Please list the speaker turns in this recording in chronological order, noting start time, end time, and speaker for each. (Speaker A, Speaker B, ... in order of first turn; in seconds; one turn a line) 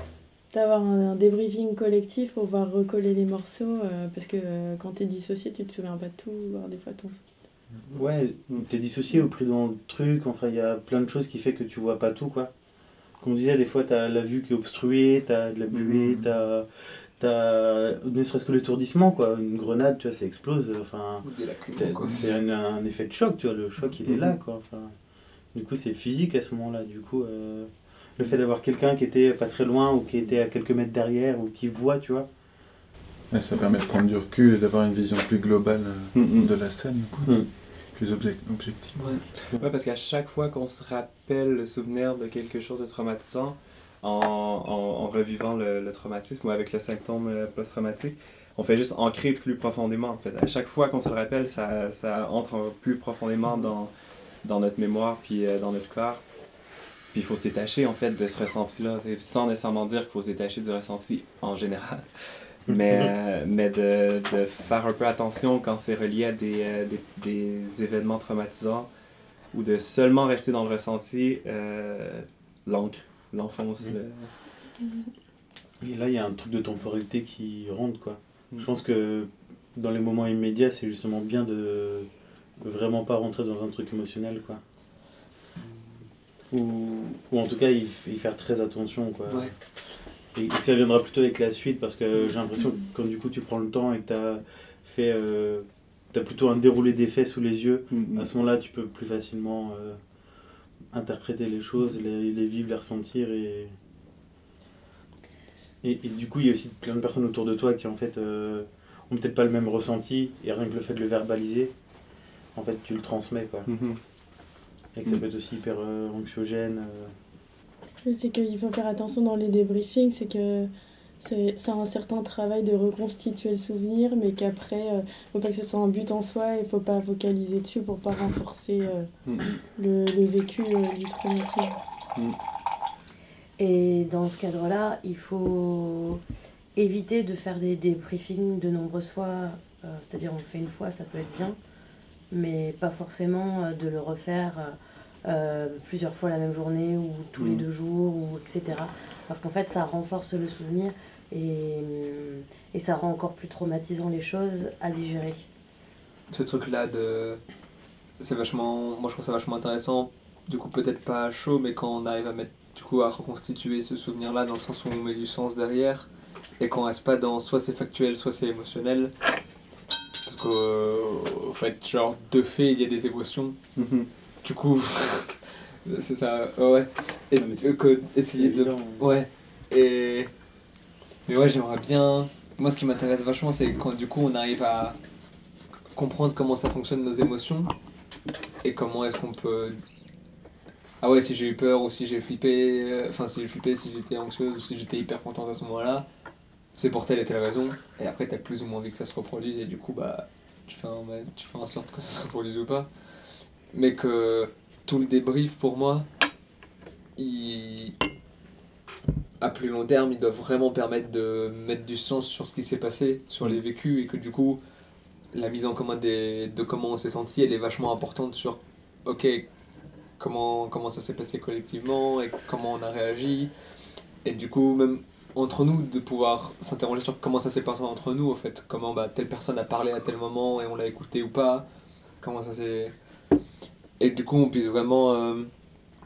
Speaker A: 0.5-7.2
Speaker B: 8.0-12.5
Speaker B: 13.2-24.9
Speaker C: 15.7-16.3
Speaker D: 21.2-22.2
Speaker C: 22.1-22.3
Speaker B: 25.5-32.3
Speaker C: 33.3-39.2
Speaker D: 39.0-39.2
Speaker E: 39.6-53.9
Speaker E: 54.4-56.2
Speaker E: 57.1-68.9
Speaker B: 62.7-63.1
Speaker E: 69.5-74.3
Speaker A: 74.8-75.1
Speaker B: 75.8-82.1
Speaker B: 82.6-84.6
Speaker B: 86.5-89.5
Speaker D: 89.3-89.5
Speaker B: 90.3-100.0
Speaker C: 97.9-98.3
Speaker B: 100.9-103.8
Speaker B: 105.8-111.7
Speaker B: 112.5-113.7
Speaker C: 113.7-114.0
Speaker B: 114.9-117.2
Speaker A: 118.0-129.1
Speaker C: 129.2-129.6
Speaker A: 129.7-131.8
Speaker F: 133.6-136.2
Speaker F: 136.8-141.6
Speaker F: 142.3-155.5
Speaker C: 147.4-147.6
Speaker D: 156.3-157.4
Speaker D: 158.2-166.1
Speaker D: 166.6-169.1
Speaker D: 170.2-173.6
Speaker C: 173.8-174.1
Speaker D: 174.4-180.3
Speaker B: 177.4-177.7
Speaker B: 178.3-179.1
Speaker D: 181.3-185.0
Speaker D: 185.9-187.7
Speaker D: 188.6-189.8
Speaker D: 191.0-196.1
Speaker D: 196.7-202.9
Speaker D: 203.7-206.1
Speaker D: 207.2-208.0
Speaker D: 209.4-214.6
Speaker D: 215.3-219.5
Speaker D: 220.2-223.5
Speaker D: 224.2-231.7
Speaker D: 232.2-232.9
Speaker D: 234.0-235.5